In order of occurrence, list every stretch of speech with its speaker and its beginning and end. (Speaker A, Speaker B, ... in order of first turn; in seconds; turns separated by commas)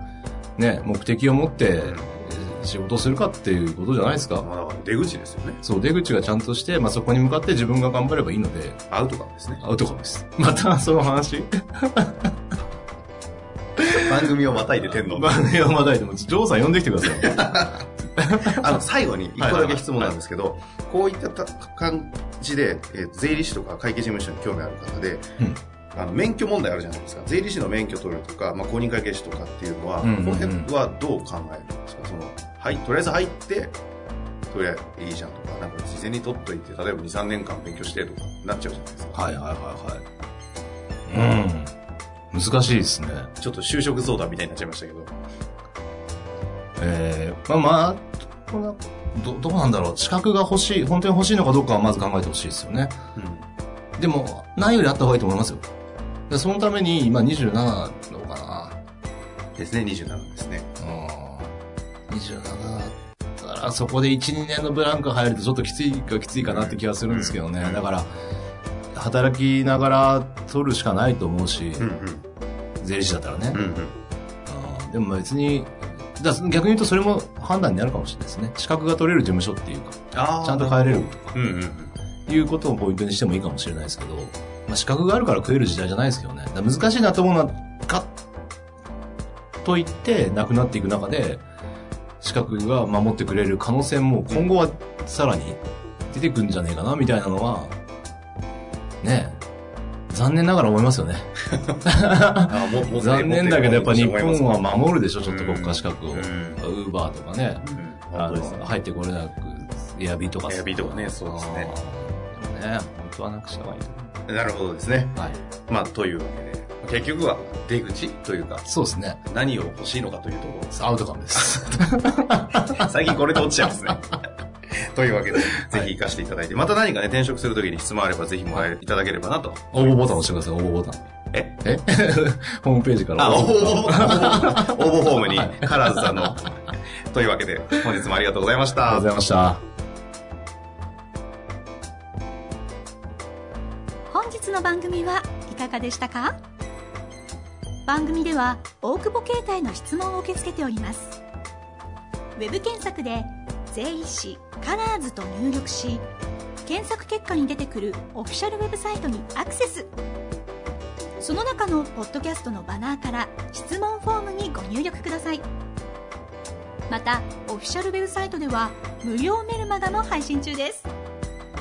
Speaker A: 0.6-4.5, Speaker B: 1.8-2.1, Speaker B: 4.4-5.6, Speaker A: 5.6-8.9, Speaker B: 8.9-9.6, Speaker A: 9.6-12.3, Speaker B: 13.9-15.5, Speaker A: 14.9-18.6, Speaker B: 17.1-17.8, Speaker B: 18.4-25.3, Speaker A: 19.4-20.1, Speaker B: 25.9-33.8, Speaker A: 30.0-30.7, Speaker B: 34.5-39.2, Speaker A: 39.1-40.0, Speaker A: 41.1-41.7, Speaker A: 42.3-43.3, Speaker B: 43.4-45.1, Speaker A: 46.8-53.0, Speaker B: 53.2-53.5, Speaker A: 54.0-55.6, Speaker A: 56.3-58.8, Speaker B: 59.6-60.7, Speaker A: 60.8-61.6, Speaker A: 62.1-68.1, Speaker B: 66.4-67.8, Speaker A: 68.9-71.9, Speaker B: 71.8-72.2, Speaker A: 72.8-73.6, Speaker B: 73.5-74.0, Speaker A: 74.5-81.4, Speaker B: 80.1-81.9, Speaker A: 82.3-88.1, Speaker A: 89.6-91.4, Speaker A: 92.2-97.8, Speaker A: 99.0-99.4, Speaker A: 100.1-107.6, Speaker B: 102.4-104.7, Speaker B: 105.2-106.6, Speaker B: 107.6-108.7, Speaker A: 108.2-114.2, Speaker B: 110.5-111.7, Speaker B: 114.3-118.7, Speaker A: 118.7-119.2, Speaker B: 119.3-120.7, Speaker A: 120.7-122.9, Speaker B: 122.7-124.1, Speaker B: 124.7-130.2, Speaker A: 129.7-131.0, Speaker A: 131.6-136.3, Speaker B: 133.2-136.6, Speaker B: 137.1-139.1, Speaker A: 138.8-139.6, Speaker C: 144.1-146.4, Speaker C: 147.9-151.2, Speaker C: 152.4-156.1, Speaker C: 156.7-159.9, Speaker C: 161.2-165.4, Speaker C: 166.9-170.9